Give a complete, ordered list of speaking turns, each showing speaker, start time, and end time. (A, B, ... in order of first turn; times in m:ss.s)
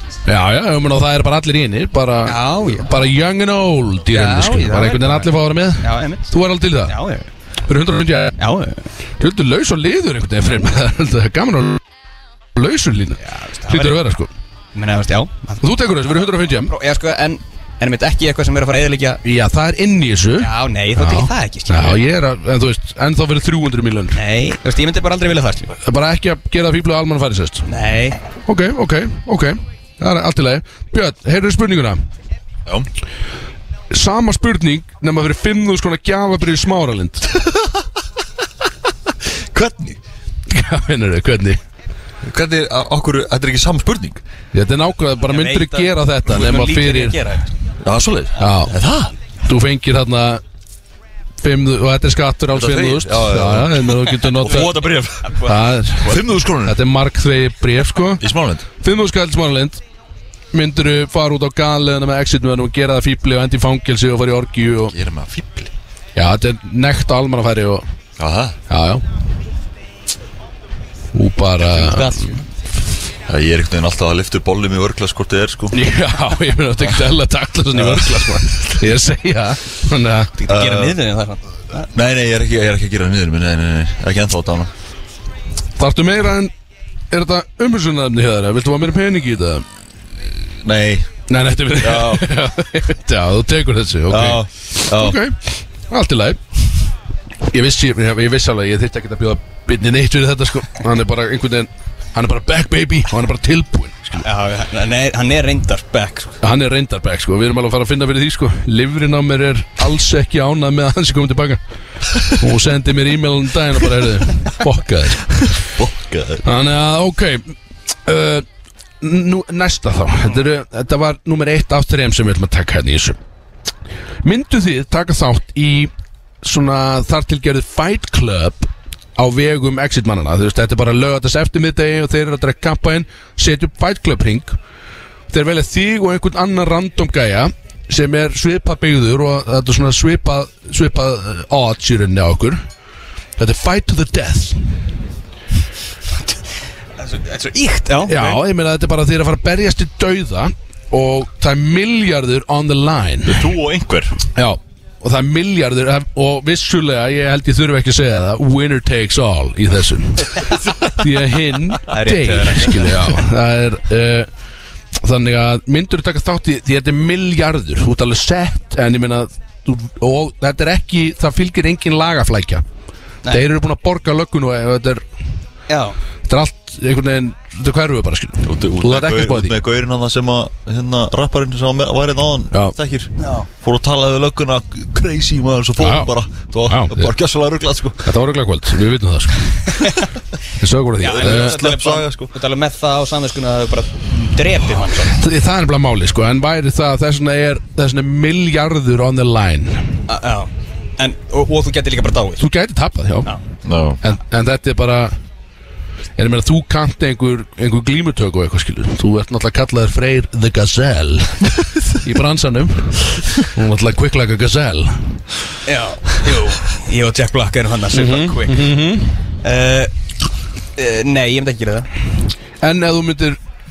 0:00.3-0:07.0 A
0:02.2-0:03.0 B
0:04.1-0:06.3 B
0:06.9-0:07.3 B
0:07.7-0:08.4 A
0:08.4-0:08.8 B
0:09.2-0:11.8 A
0:12.6-0:14.3 A
0:13.2-0:14.0 B
0:14.8-0:15.7 B
0:15.6-0:16.7 A
0:16.5-0:19.2 B
0:19.2-0:24.2 A
0:20.4-0:22.0 B
0:24.2-0:25.7 B
0:25.8-0:27.7 A
0:27.7-0:28.2 B
0:28.5-0:32.0 A
0:33.9-0:37.3 A
0:37.3-0:37.7 C
0:39.5-0:40.0 C
0:40.5-0:41.6 A
0:42.2-0:44.2 C
0:44.5-0:47.2 A
0:45.2-0:47.5 B
0:47.8-0:49.1 C
0:48.4-0:48.8 A
0:49.4-0:50.4 A
0:51.4-0:54.9 A
0:52.5-0:56.8 C
0:55.2-0:55.6 B
0:55.4-0:58.3 A
0:58.2-0:58.7 C
0:58.8-0:59.8 A
1:00.5-1:04.9 A
1:04.9-1:05.7 C
1:06.2-1:07.9 A
1:08.2-1:08.6 C
1:08.7-1:09.1 A
1:11.1-1:12.2 A
1:11.7-1:12.4 B
1:13.3-1:15.9 C
1:15.7-1:20.3 A
1:17.8-1:18.4 C
1:20.4-1:21.9 B
1:20.5-1:21.0 C
1:21.9-1:24.7 C
1:25.8-1:26.5 A
1:27.1-1:29.7 A
1:30.6-1:31.1 C
1:31.3-1:36.4 A
1:31.8-1:32.3 C
1:34.1-1:35.2 C
1:37.4-1:44.2 A
1:44.2-1:46.4 B
1:46.4-1:51.6 A
1:52.3-1:55.6 A
1:55.5-1:56.4 C
1:56.4-1:58.5 A
1:59.0-2:03.2 A
2:04.2-2:14.6 A
2:15.3-2:22.6 A
2:23.4-2:24.6 A
2:27.0-2:28.4 B
2:28.0-2:33.5 A
2:33.3-2:34.2 C
2:34.4-2:44.3 A
2:41.9-2:43.2 B
2:45.0-2:52.6 A
2:53.3-2:55.0 A
2:55.7-2:56.0 B
2:56.3-2:59.6 A
2:58.4-3:08.1 C
3:02.5-3:02.8 A
3:03.2-3:03.5 B
3:05.8-3:06.1 A
3:06.7-3:07.1 A
3:08.0-3:09.9 A
3:09.8-3:10.0 B
3:10.6-3:11.6 A
3:11.0-3:15.2 B
3:11.1-3:12.3 C
3:15.0-3:20.0 A
3:20.1-3:22.4 B
3:22.4-3:23.3 A
3:23.6-3:24.0 C
3:24.0-3:25.2 A
3:26.2-3:35.2 A
3:35.7-3:38.7 B
3:37.9-3:39.2 A
3:39.4-3:39.9 B
3:40.8-3:41.9 B
3:42.6-3:43.4 A